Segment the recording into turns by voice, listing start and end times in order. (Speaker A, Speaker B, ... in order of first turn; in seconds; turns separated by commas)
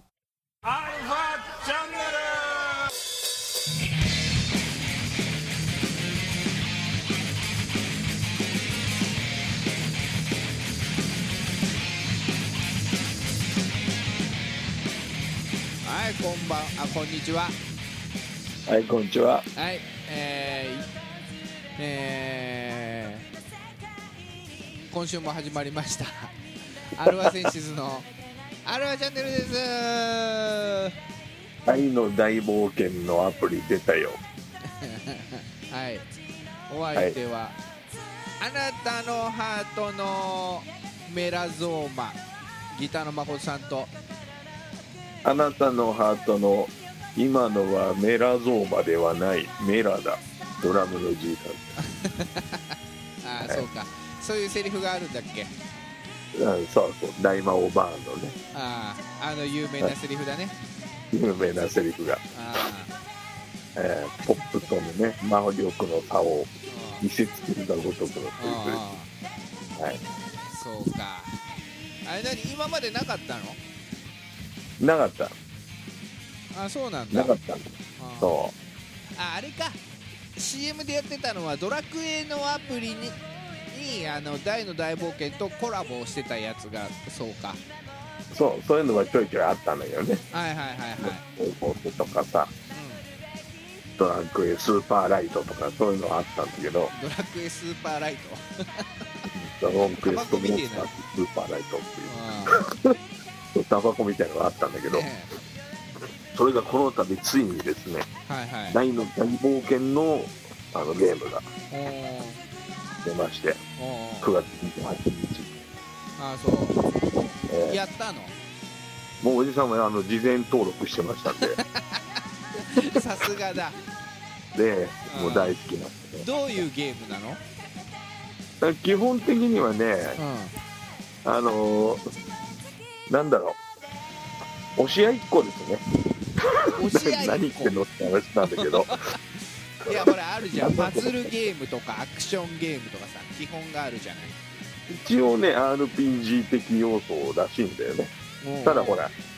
Speaker A: 0.6-2.7, Speaker B: 15.8-17.5, Speaker C: 18.7-19.4, Speaker B: 19.6-20.9, Speaker B: 21.8-23.3, Speaker B: 24.9-26.3, Speaker B: 26.9-28.1, Speaker C: 27.0-27.5, Speaker B: 28.6-30.9, Speaker C: 31.6-34.2, Speaker B: 34.7-36.0, Speaker B: 36.7-37.6, Speaker B: 38.4-43.9, Speaker C: 45.2-51.8, Speaker B: 51.8-52.6, Speaker B: 53.2-55.5, Speaker C: 53.4-53.7, Speaker C: 56.3-58.4, Speaker B: 58.5-60.6, Speaker C: 61.1-62.2, Speaker B: 62.3-62.9, Speaker C: 63.8-66.5, Speaker B: 66.7-67.0, Speaker C: 67.0-68.8, Speaker B: 68.4-69.1, Speaker B: 70.5-71.3, Speaker B: 72.0-73.6, Speaker C: 74.8-75.3, Speaker B: 76.5-77.3, Speaker C: 77.1-77.7, Speaker B: 78.0-78.3, Speaker C: 78.2-78.5, Speaker B: 79.2-79.8, Speaker B: 80.3-87.6, Speaker C: 88.3-90.2, Speaker B: 90.3-91.2, Speaker C: 91.0-92.5, Speaker B: 92.7-93.0, Speaker C: 94.0-96.9, Speaker B: 96.9-99.3, Speaker C: 99.3-103.0, Speaker B: 99.9-100.9, Speaker B: 102.1-102.6, Speaker C: 103.5-105.0, Speaker B: 104.9-105.3, Speaker C: 106.3-108.0, Speaker B: 108.2-108.8, Speaker C: 108.7-111.5, Speaker B: 111.7-112.4, Speaker C: 113.0-113.6, Speaker B: 113.8-114.4, Speaker C: 114.2-115.5, Speaker B: 116.2-116.8, Speaker C: 117.5-117.8, Speaker B: 117.6-118.3, Speaker C: 119.2-121.6, Speaker B: 121.3-122.0, Speaker B: 122.6-123.8, Speaker C: 124.5-126.2, Speaker B: 125.1-125.6, Speaker B: 126.2-127.4, Speaker C: 128.6-130.2, Speaker B: 130.2-130.5, Speaker C: 131.2-132.0, Speaker C: 133.1-133.6, Speaker C: 134.8-135.8, Speaker C: 136.4-139.0, Speaker B: 136.7-137.8, Speaker B: 138.6-139.2, Speaker B: 139.8-144.4, Speaker C: 139.9-141.4, Speaker C: 144.9-148.1, Speaker B: 148.4-149.0, Speaker C: 148.6-149.1